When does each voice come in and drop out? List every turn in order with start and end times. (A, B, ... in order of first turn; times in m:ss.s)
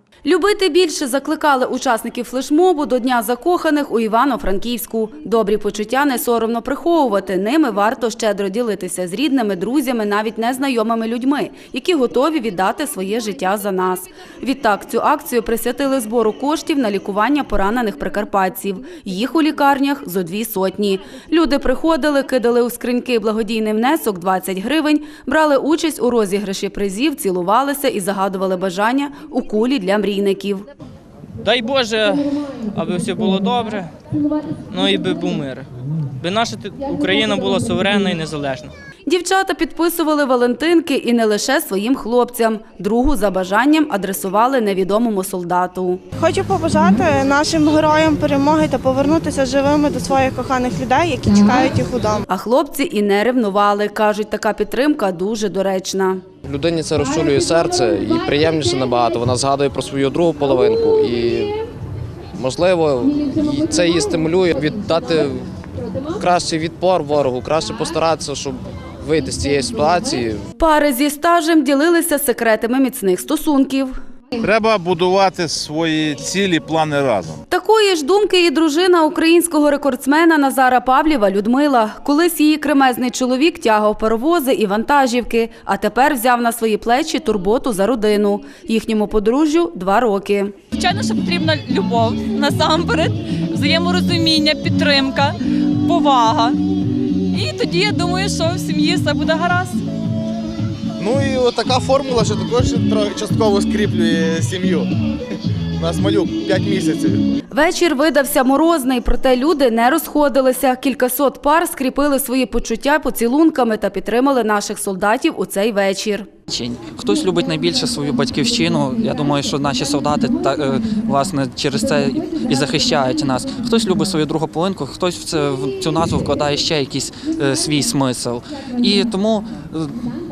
0:00.2-0:30.6 A
0:31.4-0:33.9 B
0:34.7-0:35.7 B
0:36.2-0:38.7 B
0:39.0-0:46.0 A
0:46.2-0:52.2 C
0:52.3-0:56.2 A
0:56.4-1:01.6 D
1:02.4-1:05.5 D
1:06.2-1:10.5 D
1:10.6-1:13.9 A
1:14.4-1:17.4 E
1:17.5-1:30.5 A
1:30.7-1:36.6 F
1:37.3-1:39.8 F
1:41.0-1:44.9 G
1:45.8-1:47.2 G
1:47.5-1:56.3 A
1:56.5-2:10.0 H